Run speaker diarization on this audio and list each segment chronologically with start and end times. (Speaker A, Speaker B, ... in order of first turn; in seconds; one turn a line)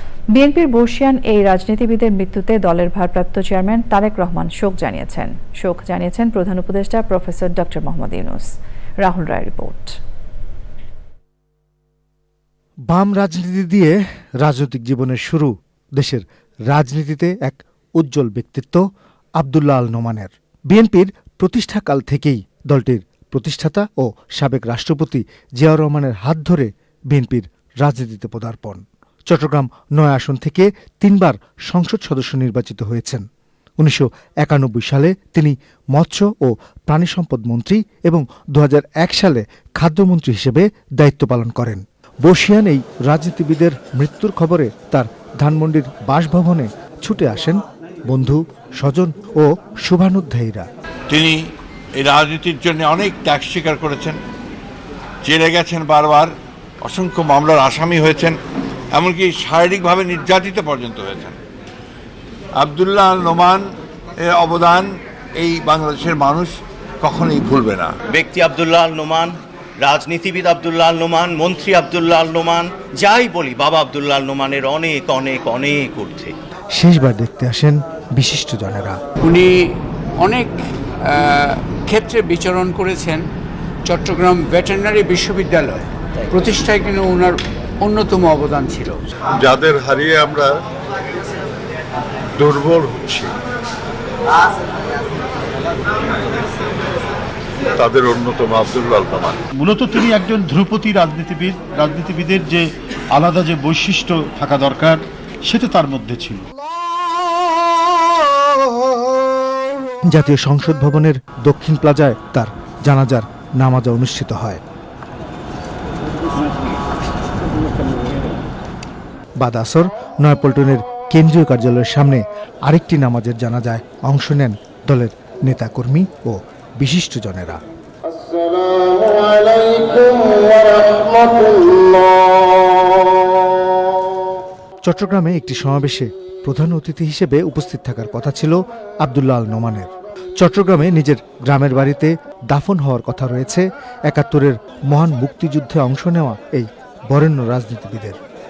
Speaker A: 0.3-10.0
Speaker B: 12.9-18.8
Speaker B: 19.4-33.2
Speaker B: 33.8-50.7
Speaker C: 51.1-51.4
Speaker C: 52.0-54.2
Speaker C: 55.2-58.4
Speaker C: 58.9-61.4
Speaker C: 62.6-63.6
Speaker C: 64.2-64.8
Speaker C: 65.4-67.9
Speaker D: 68.1-76.3
Speaker B: 76.7-79.0
Speaker E: 79.2-79.7
Speaker E: 80.2-83.2
Speaker E: 83.9-89.0
Speaker F: 89.4-90.5
Speaker F: 92.4-93.3
Speaker F: 97.8-99.4
Speaker G: 99.5-106.4
Speaker B: 110.1-114.6
Speaker B: 119.4-127.6
Speaker B: 134.8-148.2